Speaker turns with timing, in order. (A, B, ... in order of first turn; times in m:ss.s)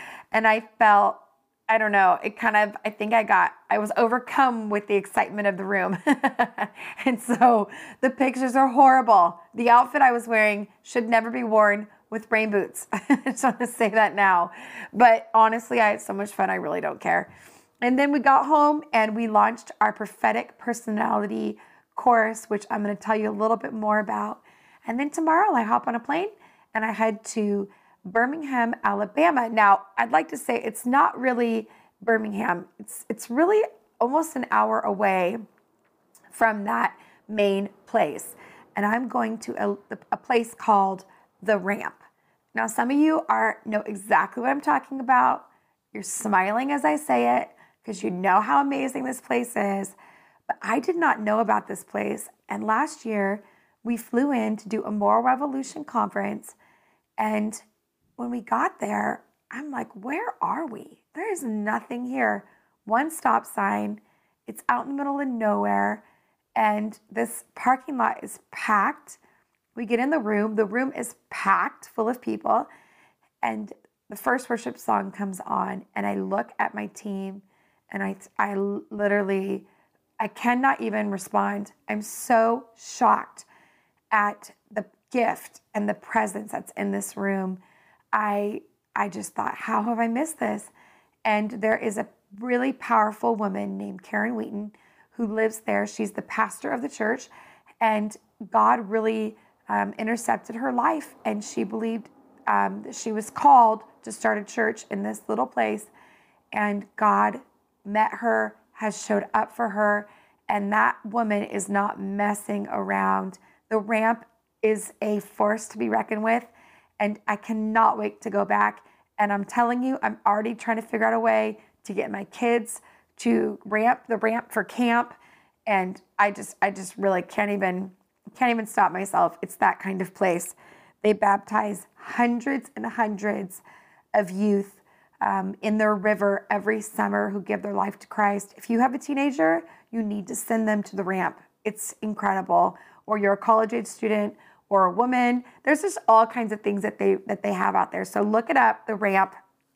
0:00.3-0:17.3 A
0:17.8-0:35.4 A
0:36.3-0:50.0 A
0:50.5-0:56.6 A
0:57.2-0:57.6 A
0:58.2-1:06.0 A
1:06.6-1:09.2 A
1:09.7-1:12.7 A
1:13.4-1:19.7 A
1:20.2-1:23.4 A
1:24.1-1:27.6 A
1:28.1-1:30.7 A
1:31.2-1:37.3 A
1:37.8-1:45.9 A
1:46.5-2:13.6 A
2:14.1-2:29.4 A